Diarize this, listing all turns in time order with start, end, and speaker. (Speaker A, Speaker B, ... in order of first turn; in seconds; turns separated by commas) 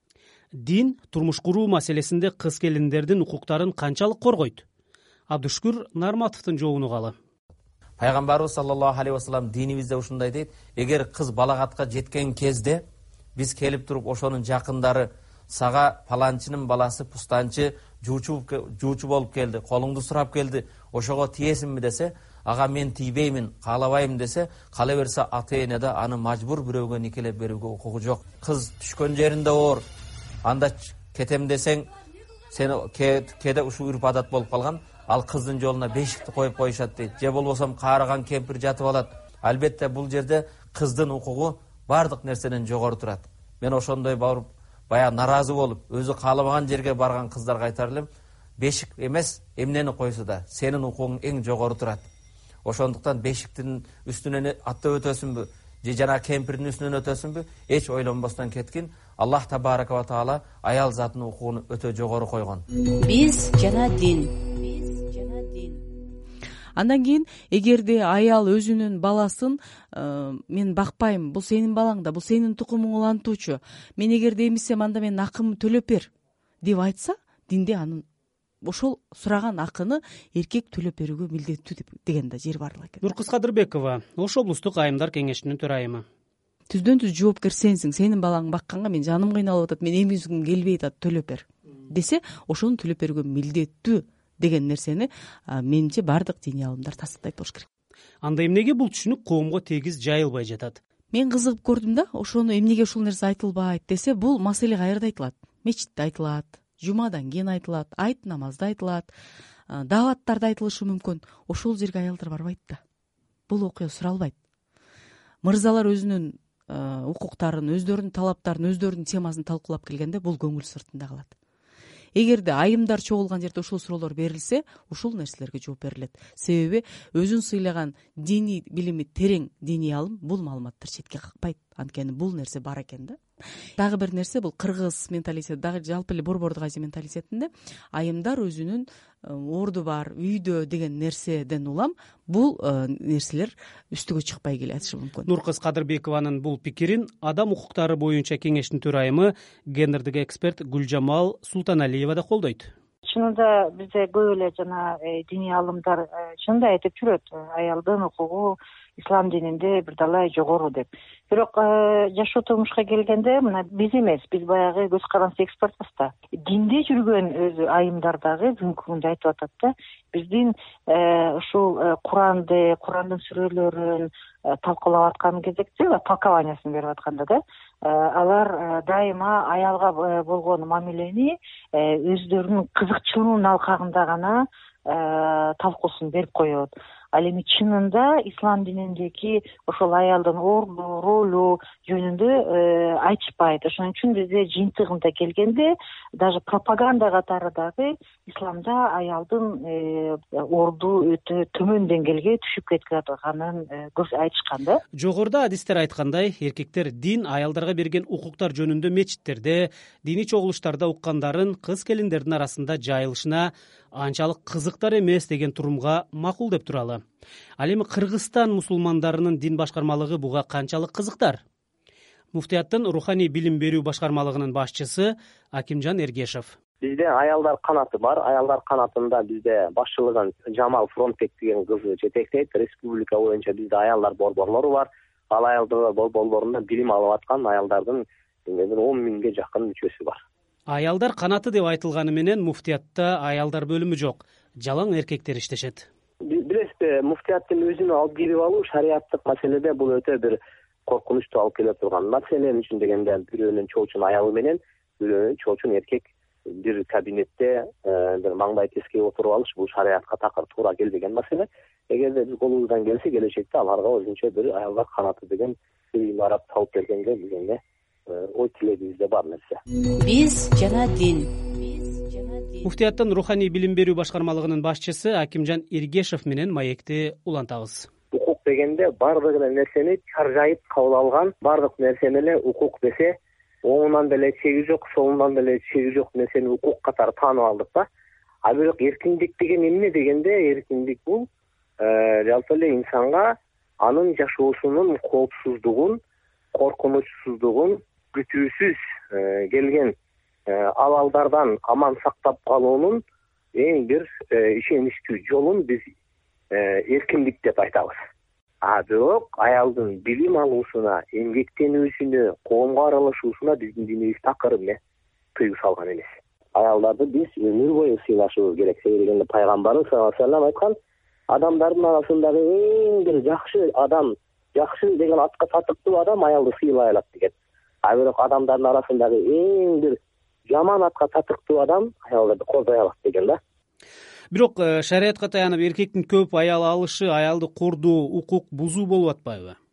Speaker A: 0.6-4.6, Speaker A: 5.3-7.1, Speaker B: 8.0-12.8, Speaker B: 13.3-29.8, Speaker B: 30.4-31.9, Speaker B: 32.5-52.1, Speaker B: 52.6-62.6, Speaker C: 63.1-64.0, Speaker D: 63.1-64.3, Speaker C: 65.0-65.5, Speaker E: 66.8-76.1, Speaker E: 76.6-78.0, Speaker E: 78.6-83.0, Speaker A: 83.0-86.0, Speaker E: 86.7-97.7, Speaker A: 98.2-100.8, Speaker E: 101.1-109.1, Speaker E: 109.7-112.8, Speaker E: 113.5-114.3, Speaker E: 115.4-121.3, Speaker E: 122.1-133.2, Speaker E: 133.8-145.3, Speaker A: 145.3-152.7, Speaker C: 153.0-204.8, Speaker A: 205.0-217.0, Speaker A: 217.6-221.4, Speaker A: 222.3-226.5, Speaker F: 226.8-240.2, Speaker A: 240.7-245.9, Speaker F: 246.2-269.6, Speaker C: 270.0-271.2, Speaker D: 270.1-271.2, Speaker A: 272.6-277.9, Speaker F: 278.1-287.9, Speaker F: 288.4-291.2, Speaker F: 291.8-296.0, Speaker F: 296.5-299.9, Speaker F: 300.5-303.0, Speaker F: 303.5-305.8, Speaker F: 306.5-307.9, Speaker F: 308.6-314.8, Speaker F: 315.3-320.7, Speaker F: 321.3-327.3, Speaker F: 327.8-330.0, Speaker F: 330.5-333.4, Speaker A: 334.3-339.6